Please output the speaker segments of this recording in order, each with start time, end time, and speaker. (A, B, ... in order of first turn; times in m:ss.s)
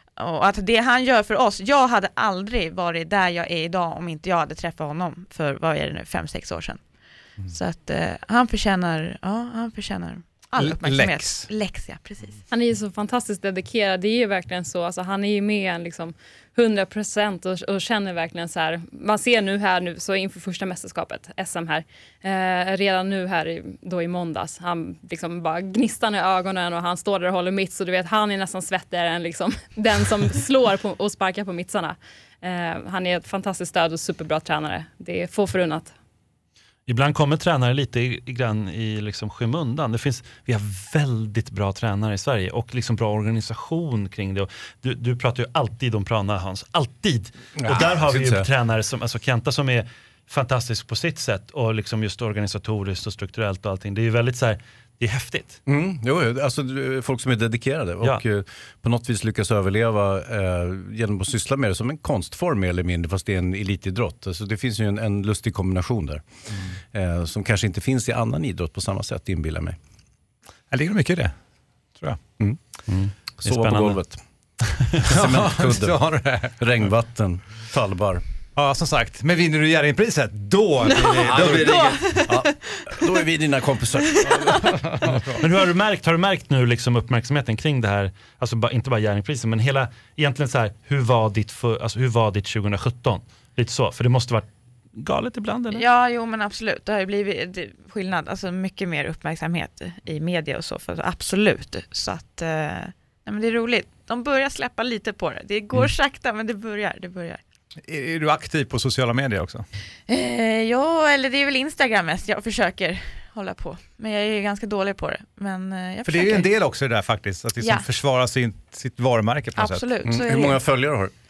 0:00.2-0:06.8 A
0:07.5-0:12.4 A
0:10.6-0:11.5 B
0:12.5-0:35.9 C
0:36.9-0:55.6 D
0:47.6-0:48.5 E
0:55.7-1:06.2 E
1:06.9-1:09.8 E
1:10.7-1:11.3 B
1:12.9-1:14.0 D
1:13.3-1:14.2 E
1:14.7-1:15.1 D
1:15.0-1:16.0 E
1:15.1-1:16.6 B
1:16.6-1:18.2 E
1:18.6-1:22.0 B
1:21.0-1:23.1 A
1:21.0-1:24.8 E
1:24.2-1:24.7 A
1:24.6-1:25.3 B
1:25.4-1:35.8 D
1:35.7-1:47.4 A
1:47.8-1:49.6 B
1:50.1-1:56.5 A
1:56.0-1:59.8 B
1:57.6-1:57.9 A
1:59.6-2:00.6 A
2:00.0-2:01.1 E